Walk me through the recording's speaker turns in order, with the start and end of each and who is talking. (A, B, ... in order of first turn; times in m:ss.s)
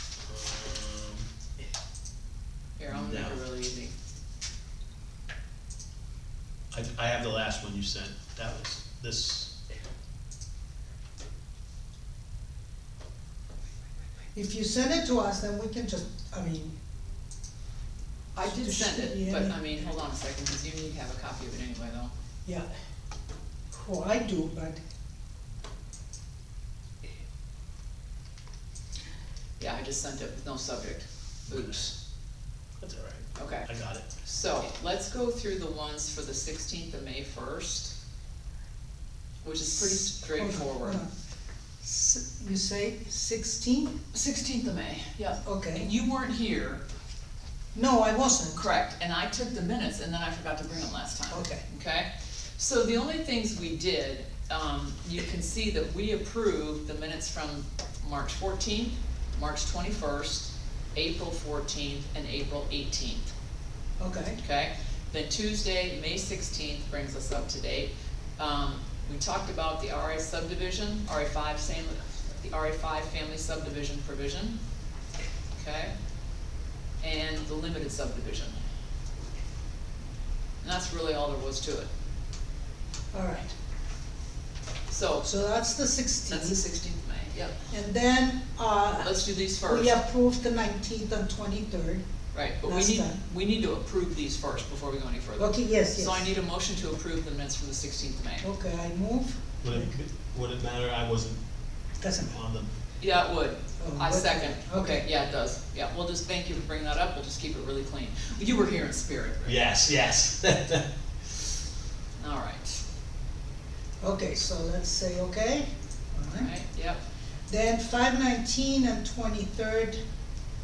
0:00.3-0:01.2 A
0:02.8-0:03.9 B
0:02.9-0:03.4 A
0:06.7-0:09.5 A
0:14.4-0:16.8 C
0:18.4-0:22.1 B
0:18.4-0:19.8 C
0:23.7-0:24.8 C
0:29.6-0:31.9 B
0:31.5-0:31.7 A
0:32.8-0:34.1 A
0:33.4-0:33.7 B
0:34.2-0:37.9 B
0:39.4-0:41.0 B
0:39.8-0:41.1 C
0:41.8-0:44.0 C
0:44.1-0:46.8 B
0:45.4-0:45.9 C
0:47.7-0:48.6 C
0:48.5-1:03.3 B
0:51.3-0:51.6 C
1:04.0-1:04.4 C
1:04.4-1:14.6 B
1:15.6-1:15.9 B
1:17.0-1:18.6 B
1:20.6-1:21.9 B
1:23.1-1:23.5 C
1:24.9-1:25.3 B
1:25.2-1:26.6 C
1:26.3-1:27.6 B
1:27.7-1:32.0 C
1:29.0-1:30.0 B
1:32.3-1:38.4 B
1:32.6-1:33.2 C
1:35.4-1:36.3 C
1:38.4-1:39.9 C
1:39.6-1:41.4 A
1:42.0-1:42.4 C
1:42.2-1:42.7 A
1:43.0-1:49.6 B
1:43.8-1:45.0 C
1:49.4-1:50.9 A
1:52.2-1:52.8 B
1:54.0-1:56.5 C
1:56.3-1:57.0 B
1:57.5-2:00.0 C